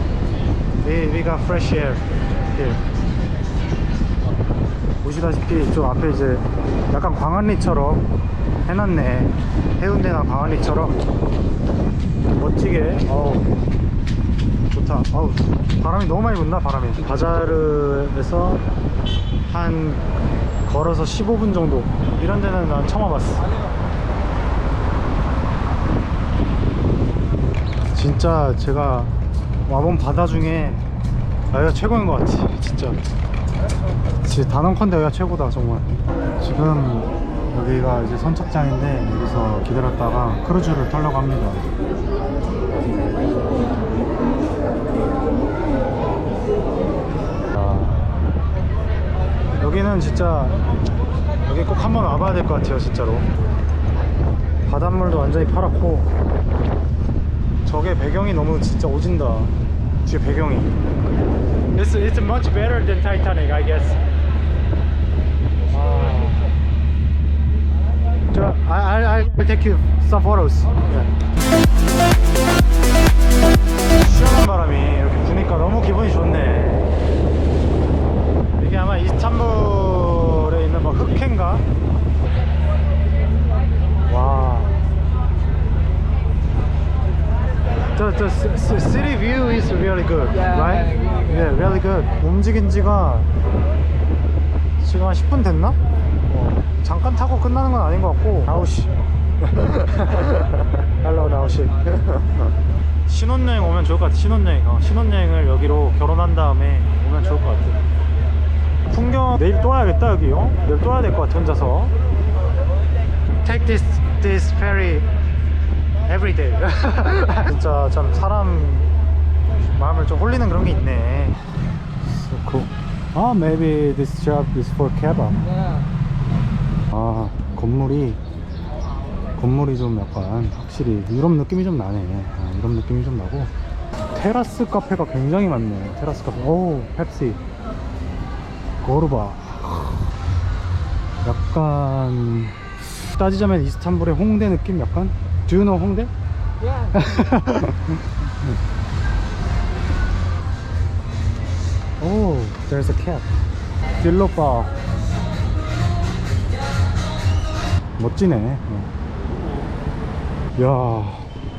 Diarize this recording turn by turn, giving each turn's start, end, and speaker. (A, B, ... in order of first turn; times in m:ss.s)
0:00.8-0:02.8 A
0:05.0-0:08.0 A
0:08.6-0:11.0 A
0:12.4-0:13.6 A
0:14.7-0:18.6 A
0:19.5-0:20.0 A
0:20.6-0:23.5 A
0:27.9-0:29.1 A
0:29.7-0:30.8 A
0:31.5-0:33.0 A
0:34.2-0:41.6 A
0:47.6-0:48.2 A
0:49.6-0:50.6 A
0:51.5-0:53.3 A
0:54.7-0:56.1 A
0:57.6-1:00.8 A
1:01.8-1:04.0 A
1:05.7-1:06.5 A
1:08.3-1:11.1 A
1:14.0-1:16.9 A
1:18.6-1:21.6 A
1:24.1-1:24.7 A
1:28.0-1:33.3 A
1:30.3-1:31.6 B
1:34.8-1:35.8 A
1:36.3-1:40.4 A
1:41.0-1:42.2 A
1:43.1-1:47.8 A
1:48.9-1:51.9 A
1:53.4-1:55.1 A
1:56.1-1:58.9 A
1:59.8-2:01.4 A
2:02.0-2:05.4 A
2:05.4-2:05.8 B
2:06.9-2:08.2 A
2:09.4-2:13.5 A
2:14.1-2:17.4 A
2:18.8-2:20.1 A
2:21.2-2:26.1 A
2:26.6-2:27.4 B
2:27.0-2:28.6 A
2:32.0-2:33.3 A
2:34.0-2:34.7 A
2:38.0-2:38.9 A
2:40.6-2:41.3 A